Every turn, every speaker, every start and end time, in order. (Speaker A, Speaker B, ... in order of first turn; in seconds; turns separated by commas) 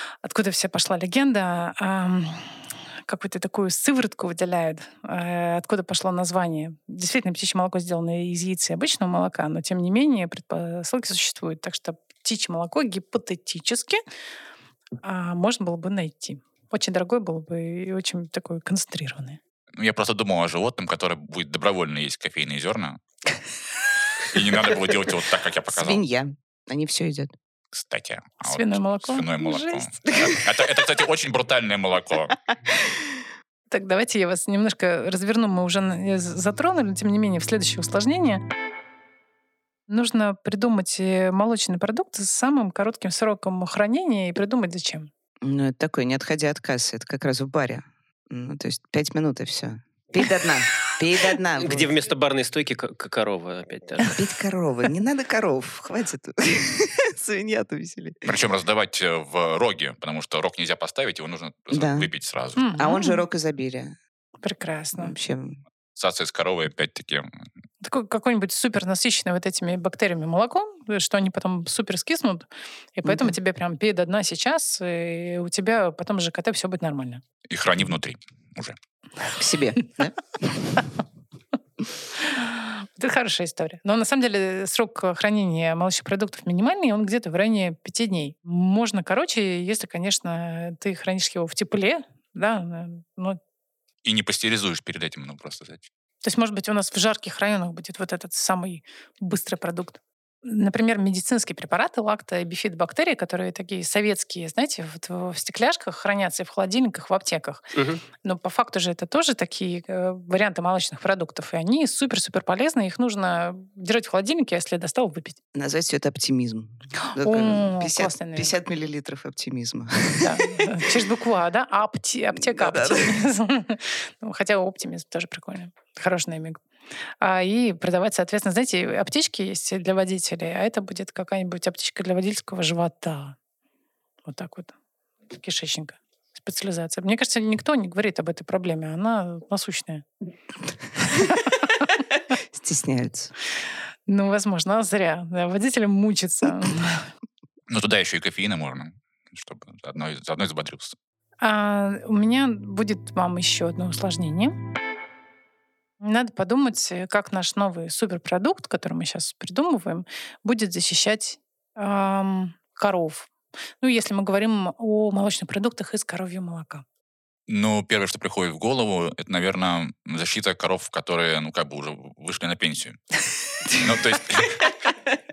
Speaker A: 0.2-2.5, Speaker A: 3.0-14.0, Speaker A: 15.0-19.4, Speaker B: 19.8-23.0, Speaker B: 24.3-26.0, Speaker C: 25.7-27.3, Speaker B: 27.7-32.4, Speaker A: 28.4-29.9, Speaker A: 33.7-38.4, Speaker A: 39.9-45.1, Speaker C: 45.4-51.9, Speaker D: 51.6-54.2, Speaker C: 54.1-58.3, Speaker B: 58.2-62.8, Speaker C: 61.7-62.1, Speaker A: 62.5-63.2, Speaker C: 62.8-64.0, Speaker A: 64.4-65.1, Speaker C: 65.0-65.6, Speaker B: 65.9-67.3, Speaker A: 67.8-77.2, Speaker C: 73.0-73.3, Speaker B: 77.5-78.8, Speaker C: 79.3-80.8, Speaker A: 82.2-93.4, Speaker B: 94.0-95.8, Speaker A: 96.2-115.4, Speaker D: 107.7-108.0, Speaker C: 115.5-120.6, Speaker A: 117.0-118.5, Speaker A: 120.2-126.6, Speaker C: 122.3-123.2, Speaker A: 127.2-133.4, Speaker A: 134.2-134.7, Speaker A: 135.3-140.1, Speaker A: 141.2-141.5, Speaker C: 142.5-143.3, Speaker A: 144.1-147.1, Speaker B: 147.7-150.9, Speaker A: 151.4-154.6, Speaker A: 156.0-166.8, Speaker B: 167.5-173.0, Speaker B: 173.7-174.7